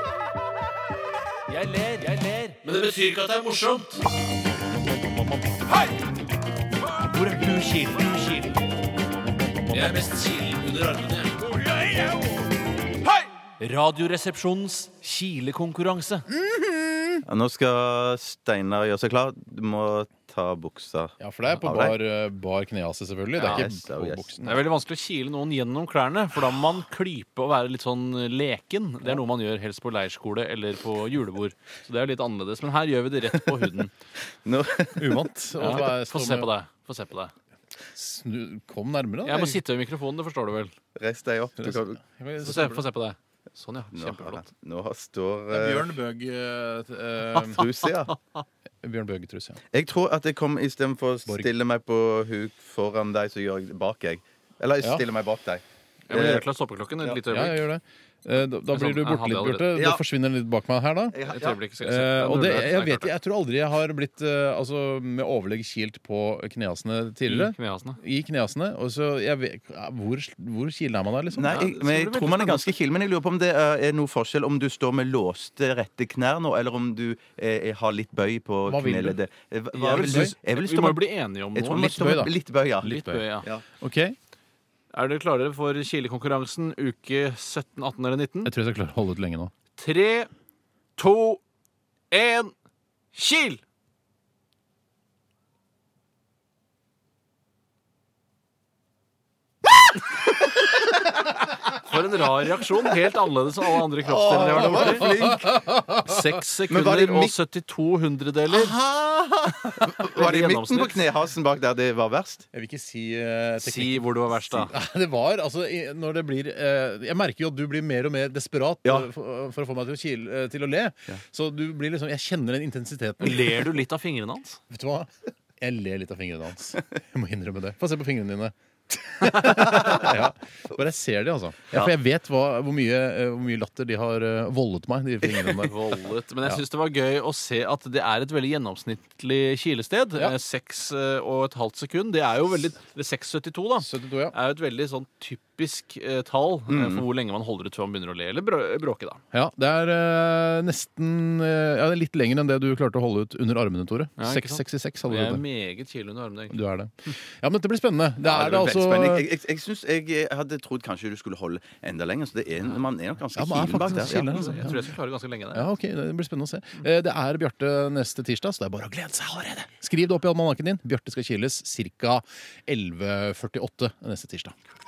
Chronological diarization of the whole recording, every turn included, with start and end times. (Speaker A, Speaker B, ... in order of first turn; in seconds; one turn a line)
Speaker A: 1.5-4.0
Speaker A: 7.0-8.6
Speaker A: 9.7-12.2
Speaker A: 13.6-16.3
Speaker B: 16.5-17.0
Speaker C: 17.2-22.0
Speaker B: 21.2-24.6
Speaker A: 23.4-23.7
Speaker C: 23.4-24.3
Speaker A: 24.4-33.9
Speaker C: 34.4-35.2
Speaker B: 35.0-36.5
Speaker A: 35.6-37.3
Speaker B: 37.9-39.6
Speaker A: 39.2-40.7
Speaker C: 40.9-42.0
Speaker B: 41.6-42.8
Speaker A: 42.4-44.5
Speaker C: 43.9-45.9
Speaker B: 45.5-47.6
Speaker C: 47.5-48.1
Speaker B: 48.8-49.6
Speaker C: 49.7-56.5
Speaker B: 51.2-51.5
Speaker A: 56.1-57.6
Speaker B: 57.3-61.2
Speaker A: 58.7-59.7
Speaker C: 59.7-60.0
Speaker C: 61.1-61.6
Speaker A: 61.2-63.1
Speaker B: 61.8-71.6
Speaker A: 67.3-68.0
Speaker C: 71.3-82.9
Speaker A: 71.4-72.7
Speaker B: 78.7-79.2
Speaker A: 79.7-82.0
Speaker B: 79.9-80.3
Speaker B: 81.7-82.3
Speaker A: 82.8-83.5
Speaker B: 82.8-83.2
Speaker B: 83.8-84.1
Speaker A: 84.9-88.5
Speaker B: 88.4-89.5
Speaker A: 89.8-90.3
Speaker A: 91.0-91.4
Speaker A: 92.1-92.5
Speaker A: 93.1-93.6
Speaker A: 101.7-105.1
Speaker C: 104.0-105.6
Speaker B: 104.5-106.0
Speaker A: 106.0-108.7
Speaker C: 106.7-107.3
Speaker C: 108.7-112.4
Speaker A: 110.1-111.0
Speaker B: 112.5-123.7
Speaker A: 113.6-114.7
Speaker A: 123.2-124.6
Speaker B: 124.7-135.8
Speaker A: 135.6-149.2
Speaker B: 143.8-144.3
Speaker C: 146.7-147.0
Speaker B: 149.3-155.4
Speaker A: 154.2-156.6
Speaker B: 156.5-159.2
Speaker C: 158.2-164.6
Speaker B: 163.3-164.9
Speaker A: 163.8-165.7
Speaker B: 165.5-174.5